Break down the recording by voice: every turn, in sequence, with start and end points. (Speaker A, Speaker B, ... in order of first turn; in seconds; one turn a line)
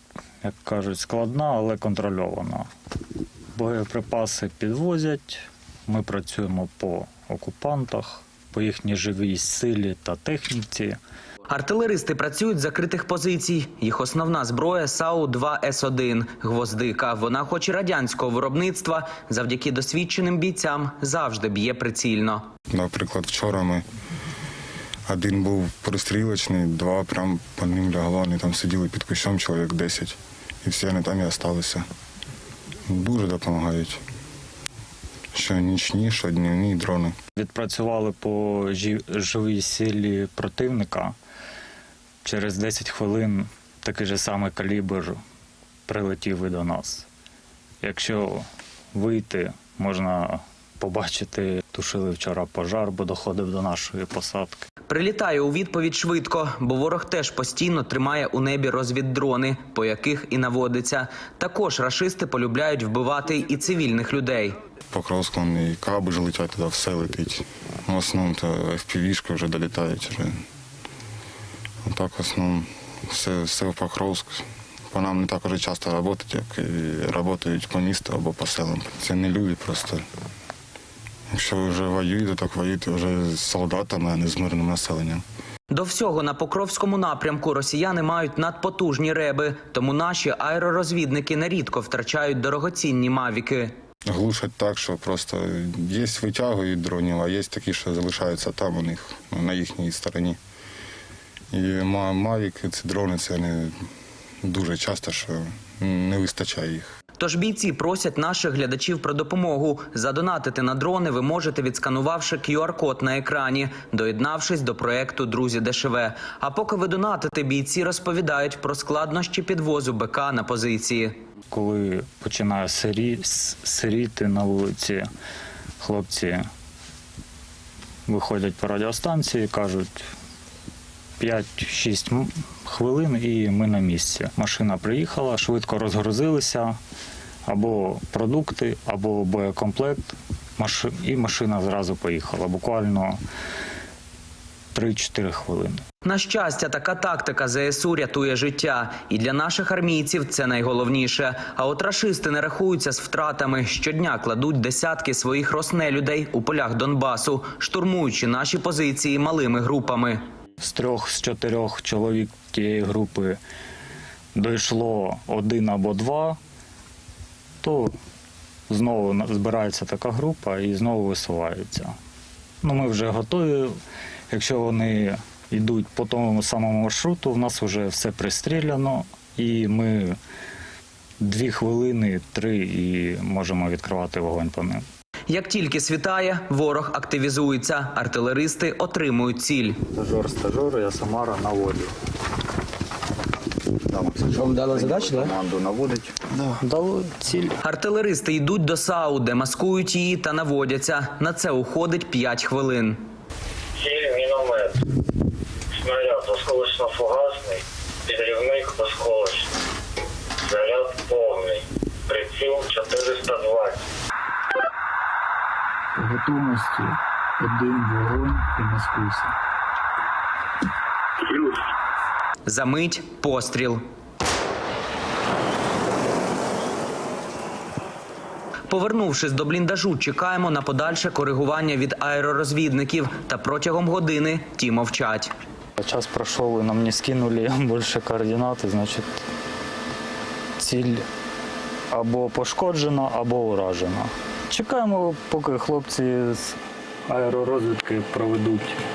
Speaker A: 0.4-2.7
Speaker A: 3.5-11.0
Speaker B: 11.5-22.5
Speaker C: 22.7-23.9
Speaker C: 25.1-31.9
Speaker C: 32.9-34.0
Speaker C: 35.3-37.2
Speaker A: 37.4-41.2
Speaker A: 42.2-45.2
Speaker A: 45.9-47.1
Speaker A: 47.8-54.7
Speaker B: 54.9-64.6
Speaker C: 64.9-70.4
Speaker C: 71.9-80.0
Speaker C: 81.3-85.2
Speaker B: 85.7-93.8
Speaker C: 94.1-100.4
Speaker C: 101.5-103.7
Speaker C: 104.4-106.9
Speaker B: 107.2-121.2
Speaker A: 121.5-125.1
Speaker A: 125.8-126.5
Speaker A: 128.1-130.1
Speaker A: 131.2-136.8
Speaker A: 137.5-140.1
Speaker A: 140.6-143.2
Speaker A: 144.7-145.8
Speaker B: 146.0-160.2
Speaker A: 160.6-163.4
Speaker A: 164.3-166.4
Speaker A: 167.6-167.9
Speaker A: 168.7-172.0
Speaker A: 172.6-173.8
Speaker A: 174.3-180.2
Speaker A: 181.2-184.9
Speaker B: 185.3-189.8
Speaker A: 189.9-191.9
Speaker A: 193.9-197.6
Speaker B: 197.6-203.0
Speaker D: 203.8-204.8
Speaker D: 205.8-209.4
Speaker D: 210.5-211.6
Speaker D: 212.1-213.8
Speaker B: 222.5-223.8
Speaker B: 228.7-235.3
Speaker A: 235.8-239.2
Speaker A: 240.6-241.1
Speaker A: 241.9-248.8